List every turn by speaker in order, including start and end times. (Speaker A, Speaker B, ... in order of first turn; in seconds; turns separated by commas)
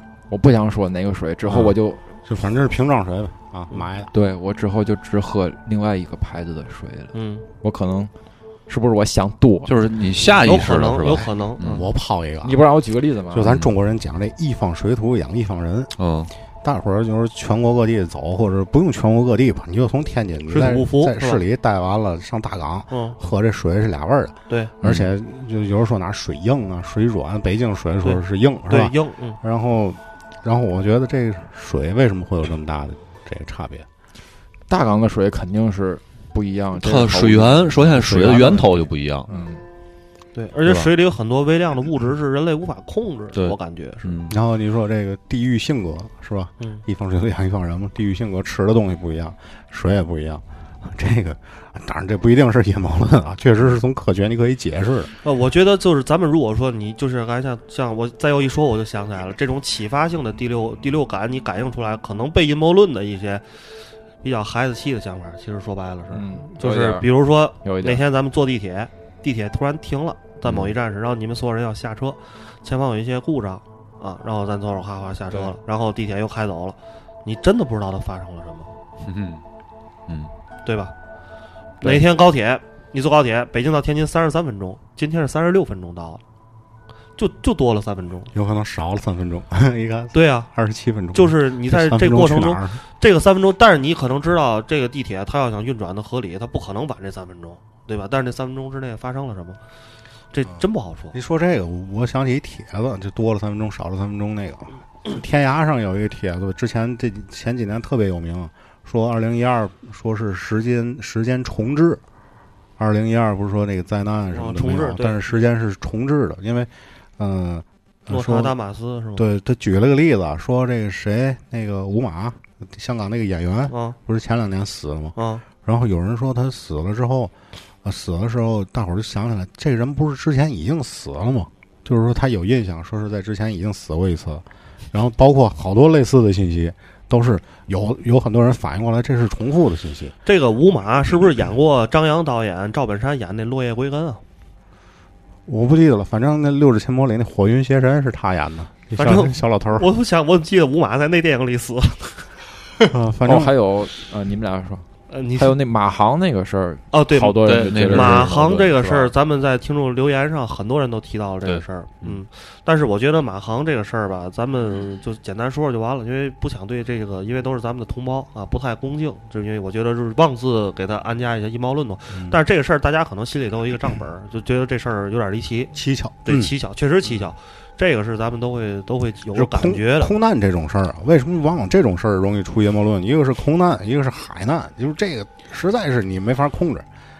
Speaker A: 0.3-2.0, Speaker B: 2.2-4.1, Speaker A: 4.1-8.1, Speaker C: 7.1-7.5, Speaker A: 8.7-9.7, Speaker D: 9.7-11.8, Speaker C: 10.4-11.9, Speaker B: 11.1-12.6, Speaker A: 12.4-13.5, Speaker B: 13.3-15.9, Speaker D: 16.0-16.3, Speaker B: 16.6-33.9, Speaker C: 20.5-21.4, Speaker C: 22.9-23.2, Speaker D: 24.8-25.1, Speaker C: 28.0-29.4, Speaker A: 34.7-38.6, Speaker D: 36.8-39.3, Speaker B: 38.0-38.8, Speaker A: 39.3-39.6, Speaker C: 40.3-44.1, Speaker D: 40.6-40.9, Speaker D: 43.3-44.4, Speaker B: 44.3-55.1, Speaker C: 55.2-63.6, Speaker C: 64.2-78.7, Speaker A: 66.1-67.1, Speaker A: 67.6-68.0, Speaker D: 70.4-70.8, Speaker D: 79.0-79.4, Speaker C: 80.6-80.9, Speaker C: 81.8-86.2, Speaker C: 87.2-88.3, Speaker B: 88.3-92.8, Speaker C: 90.1-90.5, Speaker C: 91.1-99.6, Speaker C: 100.3-101.2, Speaker B: 100.4-112.0, Speaker B: 112.8-118.5, Speaker C: 114.3-115.4, Speaker C: 118.1-119.2, Speaker B: 119.2-140.2, Speaker C: 123.7-124.0, Speaker C: 125.2-125.4, Speaker C: 140.2-144.2, Speaker B: 145.4-149.9, Speaker C: 148.9-152.2, Speaker B: 152.9-153.5, Speaker A: 153.2-159.1, Speaker C: 155.1-155.6, Speaker C: 156.9-175.7, Speaker D: 157.4-158.3, Speaker D: 161.4-162.2, Speaker B: 172.1-172.4, Speaker B: 175.7-176.5, Speaker C: 176.2-180.1, Speaker B: 179.3-186.8